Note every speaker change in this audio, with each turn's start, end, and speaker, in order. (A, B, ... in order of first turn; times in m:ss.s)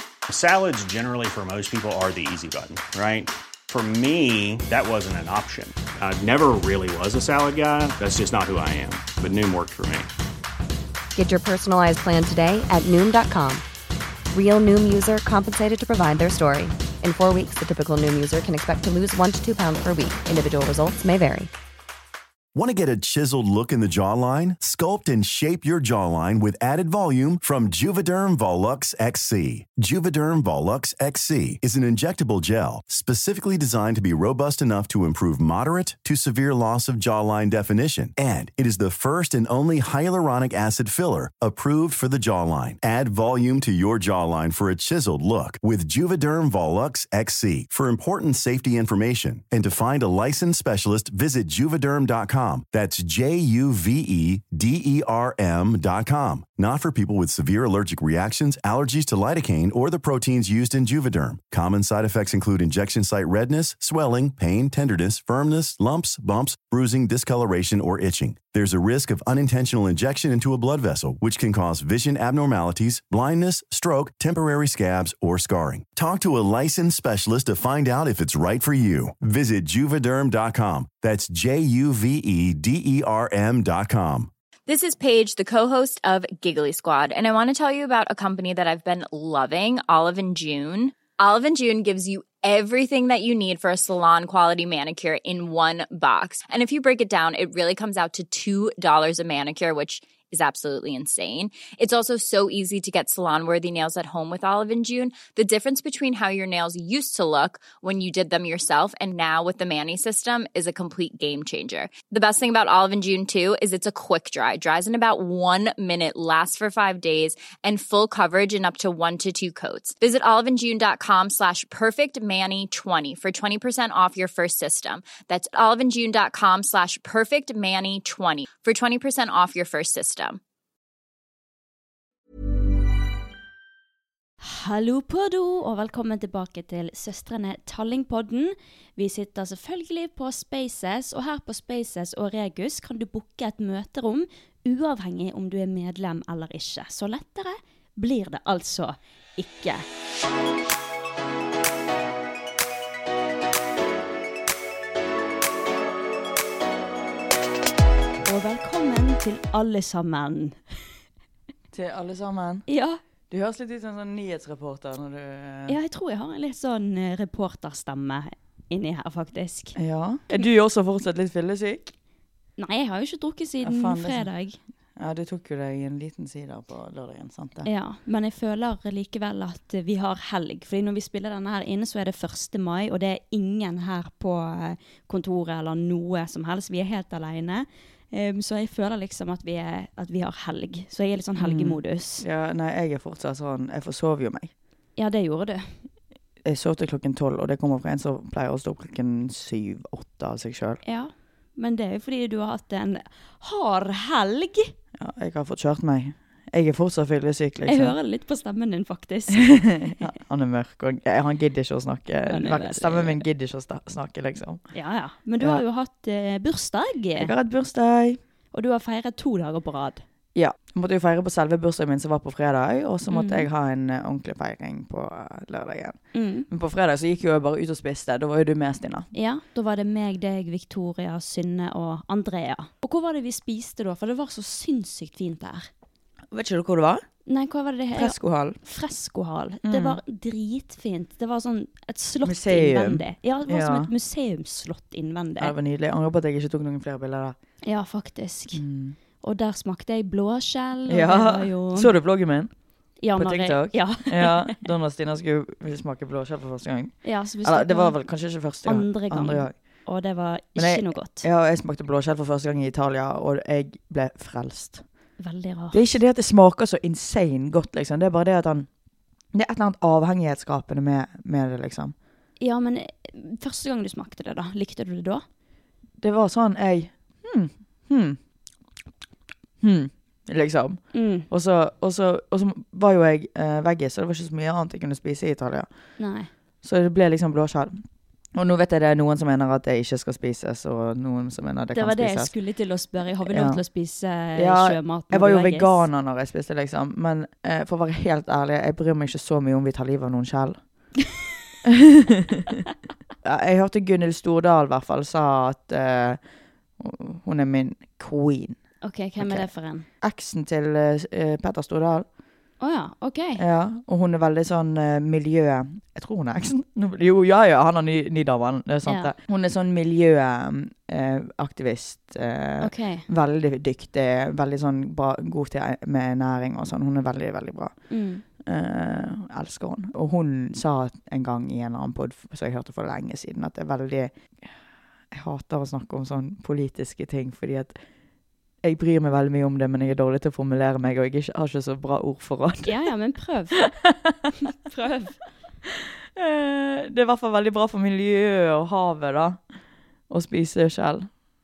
0:00.3-0:10.1 A
0:11.1-0:13.6 B
0:14.3-0:21.5 B
0:22.5-1:24.3 C
1:24.7-2:10.4 D
2:14.4-2:29.8 E
2:38.2-2:40.6 E
2:41.7-2:42.7 F
2:42.7-2:43.0 E
2:43.3-2:45.8 F
2:45.7-2:49.8 E
2:49.8-2:51.9 F
2:52.6-2:54.6 E
2:53.6-2:54.3 F
2:55.0-2:57.7 F
2:57.6-3:12.2 E
3:11.4-3:14.5 F
3:15.0-3:15.7 E
3:16.4-3:20.8 F
3:20.8-3:24.7 E
3:25.0-3:27.9 F
3:27.6-3:29.7 E
3:29.3-3:34.6 F
3:32.3-3:33.2 E
3:34.7-3:37.3 E
3:37.2-3:38.2 F
3:38.5-3:40.0 E
3:40.3-3:49.1 F
3:43.1-3:43.5 E
3:46.1-3:46.5 E
3:49.1-3:55.7 E
3:56.3-3:57.0 F
3:57.2-4:05.5 E
3:57.9-3:58.6 F
3:59.6-4:00.0 F
4:02.2-4:03.9 F
4:05.4-4:07.4 F
4:07.6-4:08.6 E
4:08.5-4:09.0 F
4:09.2-4:11.9 E
4:10.9-4:12.5 F
4:13.0-4:14.7 E
4:13.2-4:19.5 F
4:17.0-4:18.0 E
4:18.6-4:21.2 E
4:20.6-4:24.8 F
4:25.2-4:25.8 E
4:25.7-4:28.7 F
4:29.3-4:31.9 F
4:32.4-4:35.2 E
4:36.0-4:38.2 F
4:39.6-4:45.7 F
4:40.9-4:41.3 E
4:46.0-4:46.3 E
4:46.6-4:52.3 F
4:51.7-4:55.8 E
4:53.3-4:53.6 F
4:54.3-5:00.6 F
5:01.6-5:02.5 F
5:03.2-5:06.2 F
5:06.8-5:08.6 F
5:08.8-5:09.9 E
5:09.2-5:09.5 F
5:10.0-5:12.1 F
5:12.6-5:13.4 E
5:13.4-5:27.7 F
5:18.8-5:19.1 E
5:22.6-5:23.1 E
5:27.9-5:28.2 E
5:28.4-5:34.2 F
5:35.1-5:37.8 F
5:38.6-5:42.8 F
5:42.6-5:43.6 E
5:43.6-5:44.2 F
5:44.6-5:45.2 E
5:46.1-5:49.4 F
5:50.1-5:51.1 F